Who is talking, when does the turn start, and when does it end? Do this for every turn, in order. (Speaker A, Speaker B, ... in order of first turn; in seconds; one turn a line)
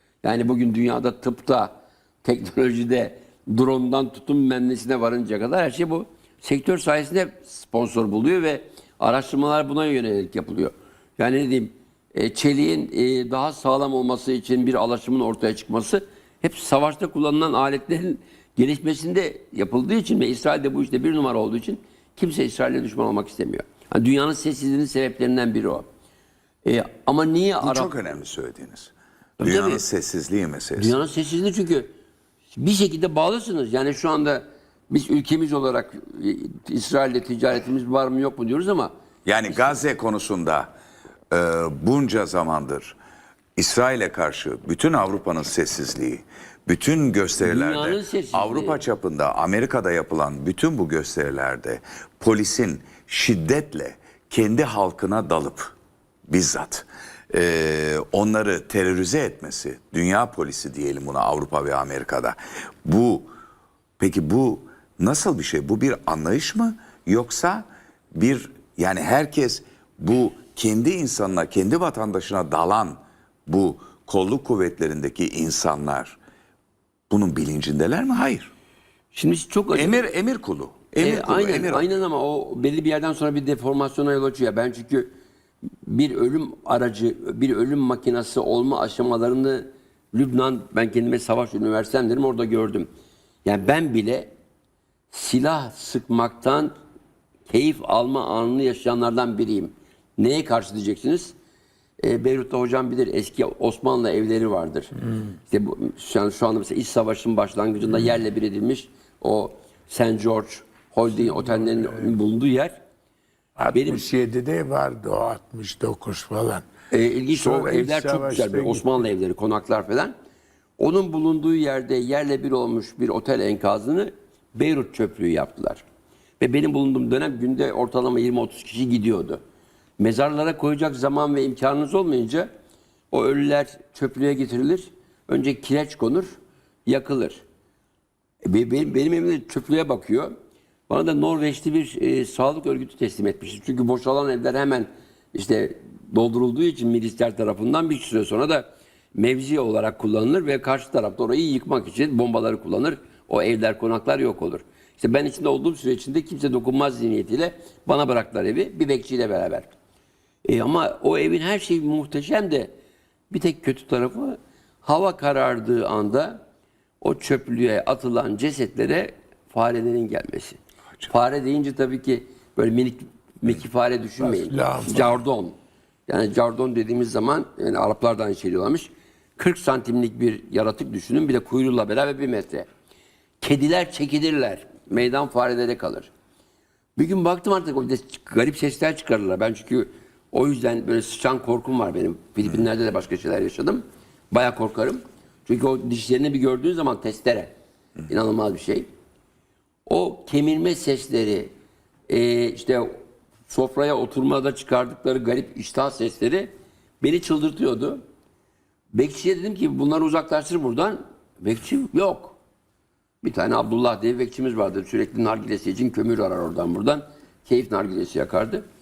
Speaker A: 0.2-25.9
Speaker A: 26.6-27.9
Speaker B: 27.6-30.9
Speaker A: 29.4-29.8
Speaker A: 30.8-31.9
Speaker A: 32.5-38.9
Speaker B: 39.2-40.7
Speaker B: 41.3-43.0
Speaker B: 43.5-55.7
Speaker A: 47.4-48.8
Speaker B: 56.3-63.3
Speaker B: 64.0-76.2
Speaker B: 77.1-78.5
Speaker A: 79.1-80.0
Speaker B: 79.7-81.9
Speaker A: 81.0-85.1
Speaker A: 85.8-92.9
Speaker A: 93.4-94.3
Speaker A: 95.1-96.7
Speaker A: 97.5-101.3
Speaker A: 102.0-104.9
Speaker A: 105.5-112.8
Speaker C: 111.2-112.1
Speaker C: 113.6-116.7
Speaker A: 113.7-114.0
Speaker A: 116.9-120.1
Speaker C: 117.3-119.0
Speaker A: 120.8-125.8
Speaker A: 126.4-129.4
Speaker A: 130.0-132.5
Speaker A: 133.1-136.3
Speaker A: 136.9-137.4
Speaker A: 138.4-140.3
Speaker A: 140.9-159.8
Speaker A: 160.4-162.7
Speaker A: 163.3-166.4
Speaker A: 167.0-175.6
Speaker C: 174.2-175.2
Speaker A: 176.1-182.7
Speaker A: 183.4-186.1
Speaker A: 187.0-197.5
Speaker A: 198.1-198.9
Speaker A: 199.9-201.5
Speaker A: 202.1-208.0
Speaker A: 208.9-212.4
Speaker A: 213.2-218.6